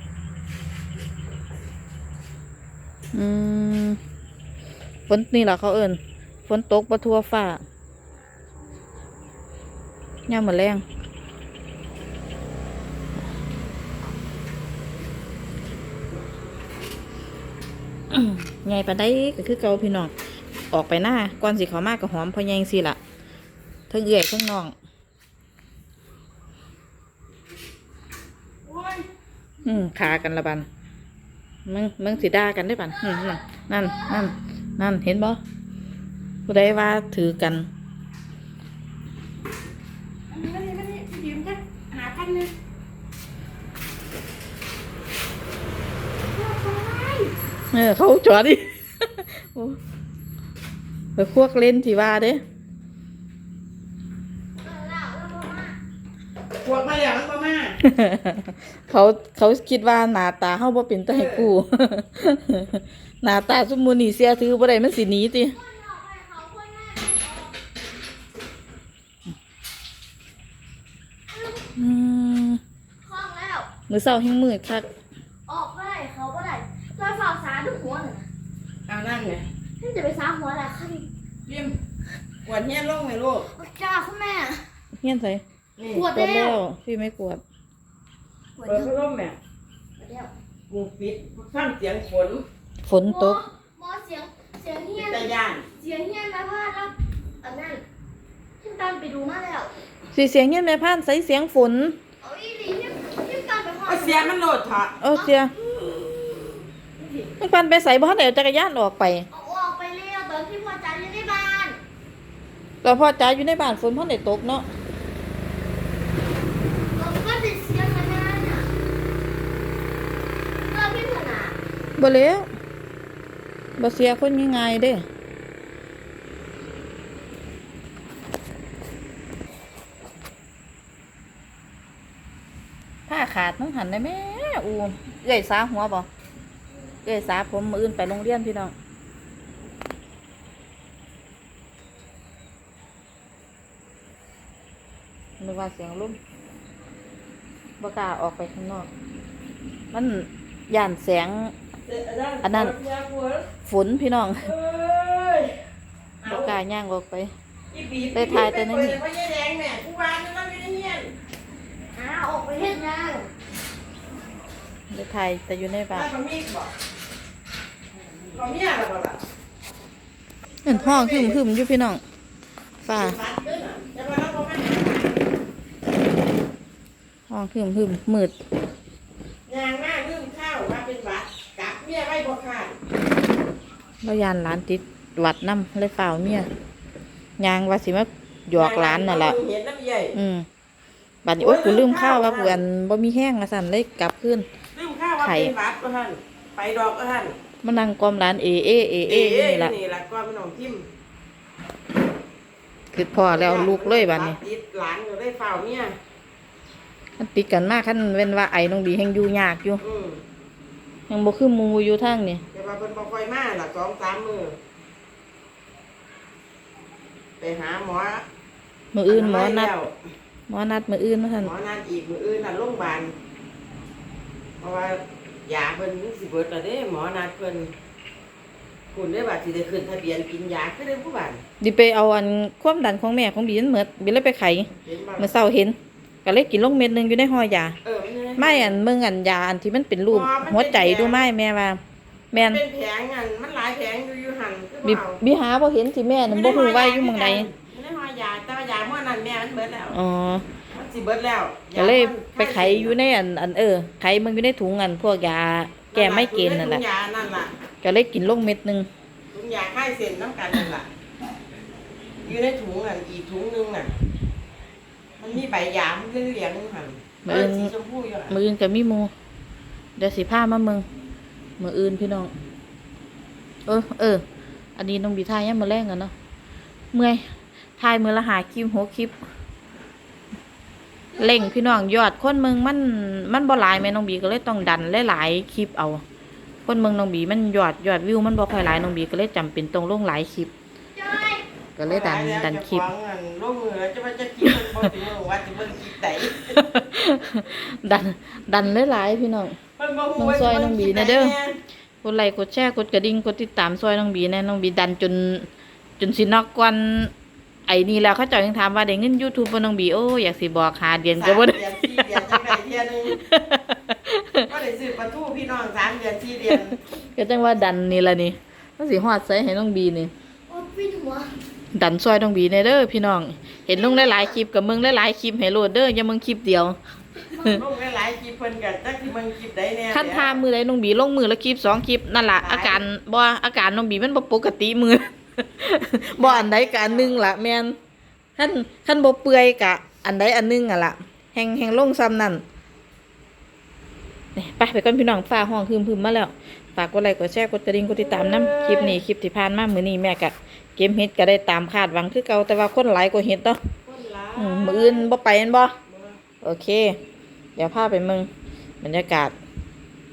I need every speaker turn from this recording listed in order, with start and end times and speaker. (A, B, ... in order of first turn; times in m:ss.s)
0:03.1-0:04.0 A
0:05.1-0:07.6 A
0:10.3-0:10.8 A
0:18.1-0:20.1 A
0:20.7-0:23.0 A
0:23.9-0:24.8 A
0:28.7-0:29.0 B
0:29.6-0:30.7 A
0:31.7-0:35.4 A
0:33.0-0:34.2 C
0:36.5-0:37.7 A
0:40.3-0:42.5 B
0:46.4-0:47.2 C
0:46.5-0:47.2 B
0:47.7-0:49.8 A
0:51.2-0:52.4 A
0:54.6-0:55.8 C
0:56.6-0:57.8 B
0:57.8-1:05.6 A
1:01.1-1:01.5 B
1:05.5-1:07.6 C
1:11.3-1:11.7 C
1:11.8-1:12.6 A
1:13.0-1:13.7 C
1:13.9-1:14.9 A
1:15.5-1:18.3 C
1:18.9-1:19.5 B
1:19.8-1:21.1 C
1:21.5-1:21.8 B
1:22.4-1:23.5 B
1:23.5-1:24.6 C
1:25.0-1:25.4 A
1:25.8-1:26.1 B
1:25.9-1:26.6 C
1:26.1-1:27.4 A
1:28.6-1:28.9 C
1:28.7-1:29.4 B
1:30.0-1:30.3 C
1:30.7-1:32.4 B
1:32.8-1:33.4 A
1:33.0-1:37.8 C
1:35.0-1:35.7 B
1:38.6-1:39.7 C
1:40.1-1:42.0 A
1:42.2-1:44.3 C
1:43.9-1:45.0 B
1:45.0-1:45.5 A
1:45.1-1:47.3 C
1:47.4-1:49.3 A
1:49.3-1:51.8 C
1:52.8-1:54.7 A
1:56.9-1:58.7 C
2:00.7-2:01.6 C
2:02.0-2:02.5 A
2:03.8-2:05.0 A
2:13.1-2:16.1 A
2:17.0-2:18.7 A
2:25.4-2:26.2 A
2:27.8-2:28.9 A
2:29.9-2:31.5 A
2:31.9-2:33.5 B
2:32.4-2:32.7 A
2:33.7-2:34.5 A
2:34.4-2:35.6 B
2:36.2-2:36.6 B
2:36.3-2:37.3 A
2:37.7-2:41.1 B
2:38.2-2:39.0 A
2:41.9-2:43.3 C
2:44.9-2:46.1 A
2:45.9-2:46.7 B
2:48.3-2:49.2 B
2:50.6-2:52.0 A
2:50.7-2:51.4 B
2:52.8-2:53.2 A
2:52.9-2:55.2 B
2:57.3-2:58.3 A
2:59.5-3:02.7 B
3:04.0-3:06.5 A
3:07.4-3:09.4 A
3:08.5-3:10.2 B
3:10.1-3:10.5 A
3:11.2-3:14.5 A
3:11.4-3:12.6 B
3:14.8-3:17.4 B
3:15.2-3:15.5 A
3:17.6-3:19.8 A
3:19.1-3:20.9 B
3:22.9-3:24.4 A
3:23.2-3:25.9 B
3:27.2-3:29.8 A
3:29.8-3:30.2 B
3:31.1-3:32.4 A
3:32.5-3:34.6 B
3:37.4-3:38.2 B
3:38.9-3:39.7 A
3:39.1-3:39.9 B
3:40.5-3:41.5 A
3:41.4-3:43.1 B
3:44.6-3:47.7 B
3:48.9-3:51.4 B
3:51.6-3:57.8 A
3:54.8-3:55.3 B
3:57.8-3:58.8 B
3:58.4-4:01.8 A
4:00.1-4:01.3 B
4:02.3-4:02.6 A
4:02.3-4:05.2 B
4:04.8-4:07.5 A
4:06.3-4:10.0 B
4:09.9-4:10.4 A
4:10.7-4:13.0 B
4:11.8-4:16.8 A
4:15.9-4:17.5 B
4:17.8-4:18.9 A
4:19.3-4:20.9 B
4:22.2-4:23.9 B
4:25.2-4:28.4 B
4:27.2-4:27.7 A
4:28.3-4:29.1 A
4:30.0-4:30.8 A
4:31.6-4:32.3 A
4:33.7-4:34.2 A
4:34.8-4:36.1 A
4:36.9-4:37.2 A
4:37.8-4:39.1 A
4:41.2-4:41.5 C
4:41.2-4:46.0 A
4:46.7-4:50.5 A
4:51.0-4:51.4 C
4:51.8-4:52.9 A
4:51.9-4:56.6 B
4:56.5-4:59.6 A
4:59.8-5:01.6 B
5:00.2-5:01.4 A
5:02.0-5:05.5 A
5:06.0-5:07.1 A
5:07.7-5:12.4 A
5:11.2-5:13.2 B
5:13.3-5:14.5 A
5:14.5-5:16.8 B
5:17.1-5:20.1 A
5:20.5-5:21.4 C
5:21.7-5:26.8 A
5:23.7-5:24.3 C
5:27.3-5:27.6 C
5:27.4-5:30.4 B
5:29.9-5:37.8 A
5:32.4-5:32.8 B
5:36.2-5:37.2 B
5:38.4-5:42.4 A
5:44.4-5:53.6 A
5:47.9-5:49.0 B
5:53.9-5:55.1 B
5:54.4-5:55.8 A
5:55.9-5:56.2 B
5:56.4-5:57.0 A
5:57.6-5:58.3 A
5:58.8-5:59.4 A